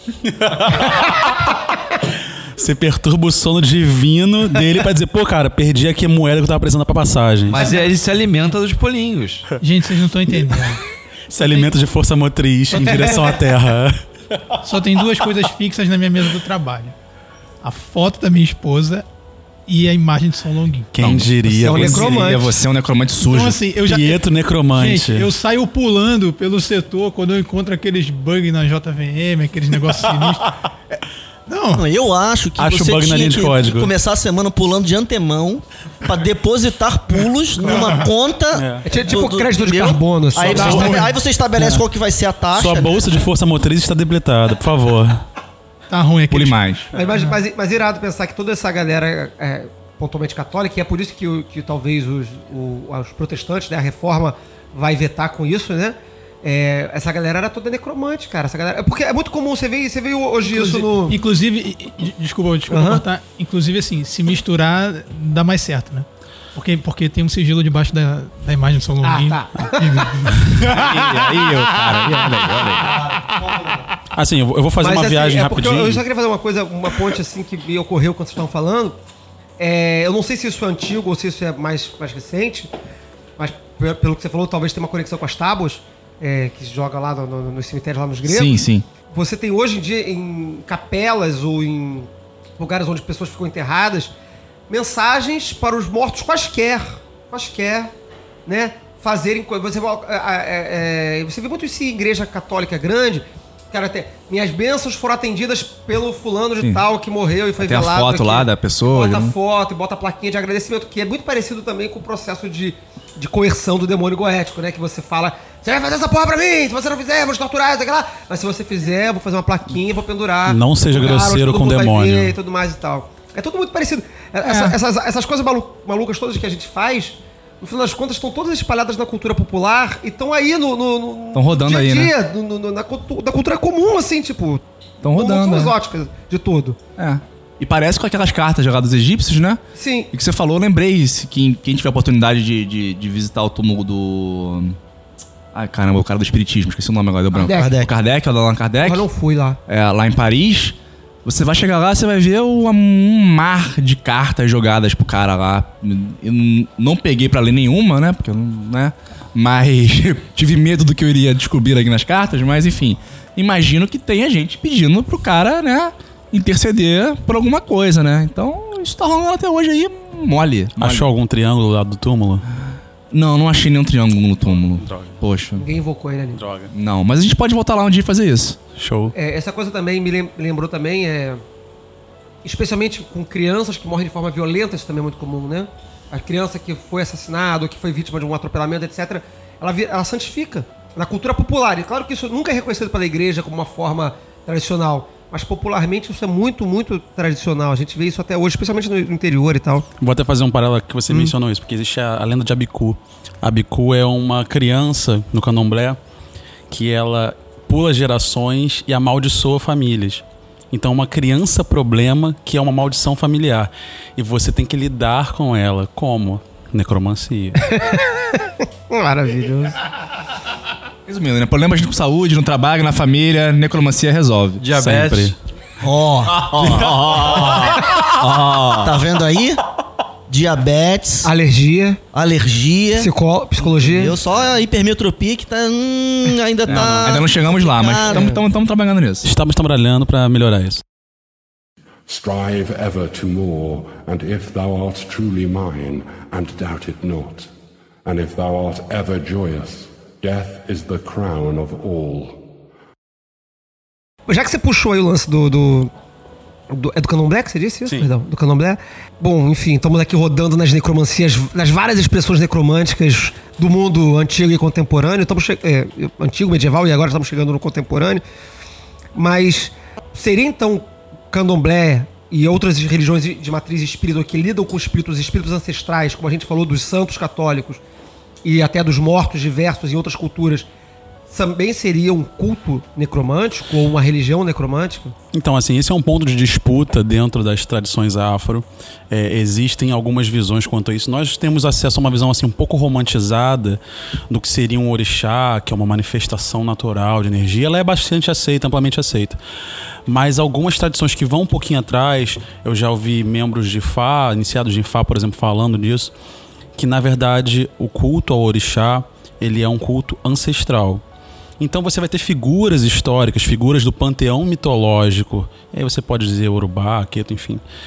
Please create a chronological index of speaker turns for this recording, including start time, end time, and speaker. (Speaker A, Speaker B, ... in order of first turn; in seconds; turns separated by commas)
Speaker A: 0.3-0.8, Speaker A: 2.5-7.7, Speaker B: 7.5-9.5, Speaker C: 9.6-10.8, Speaker A: 11.3-14.0, Speaker C: 12.7-13.4, Speaker C: 14.6-16.9, Speaker C: 17.6-19.1, Speaker C: 19.6-20.9, Speaker A: 20.9-22.3, Speaker D: 21.0-23.6, Speaker E: 21.5-22.5, Speaker C: 23.2-30.7, Speaker A: 23.9-25.3, Speaker C: 31.5-31.9, Speaker F: 31.7-43.0, Speaker A: 32.6-33.9, Speaker C: 37.6-38.1, Speaker A: 38.5-38.8, Speaker E: 38.9-41.0, Speaker C: 40.5-41.2, Speaker A: 40.6-40.9, Speaker A: 41.5-41.8, Speaker A: 42.5-45.2, Speaker C: 45.9-47.4, Speaker D: 46.3-46.9, Speaker E: 46.9-61.2, Speaker C: 60.4-72.7, Speaker E: 62.7-63.0, Speaker E: 69.0-70.1, Speaker B: 70.7-72.9, Speaker E: 73.2-73.7, Speaker A: 74.1-76.0, Speaker E: 74.8-79.0, Speaker E: 79.6-82.7, Speaker E: 83.4-94.1, Speaker D: 88.2-88.8, Speaker E: 94.7-97.9, Speaker E: 98.5-134.6, Speaker D: 107.6-109.3, Speaker A: 120.5-122.3, Speaker D: 124.4-124.7, Speaker D: 131.3-132.1, Speaker D: 135.0-135.7, Speaker E: 135.1-136.8, Speaker D: 137.0-139.6, Speaker E: 139.8-140.1, Speaker D: 140.1-144.8, Speaker D: 145.5-149.1, Speaker E: 147.3-147.7, Speaker F: 147.4-147.9, Speaker E: 148.8-149.6, Speaker D: 149.7-171.1, Speaker A: 170.8-172.4, Speaker D: 173.1-175.6, Speaker A: 174.8-175.2, Speaker E: 175.6-176.4, Speaker A: 176.3-176.7, Speaker D: 176.7-178.6, Speaker A: 178.8-179.1, Speaker E: 179.1-181.4, Speaker E: 182.4-199.8, Speaker A: 200.0-206.0, Speaker E: 201.1-201.3, Speaker A: 206.7-217.6, Speaker E: 217.6-219.8, Speaker D: 221.1-224.6, Speaker B: 224.6-225.3, Speaker A: 224.7-225.4, Speaker F: 225.8-226.7, Speaker B: 226.3-229.0, Speaker F: 228.8-229.6, Speaker F: 230.3-231.3, Speaker E: 231.2-232.0, Speaker F: 232.1-238.4, Speaker E: 233.0-234.2, Speaker D: 236.7-239.3, Speaker A: 236.7-237.1, Speaker E: 238.1-238.4, Speaker A: 239.2-240.8, Speaker G: 242.1-247.5, Speaker G: 248.0-252.4, Speaker E: 254.3-255.9, Speaker E: 256.7-268.2, Speaker E: 269.1-277.8, Speaker E: 278.4-280.7, Speaker E: 281.3-285.1, Speaker A: 285.3-299.4, Speaker A: 300.1-306.1, Speaker A: 306.7-311.0, Speaker A: 311.6-317.6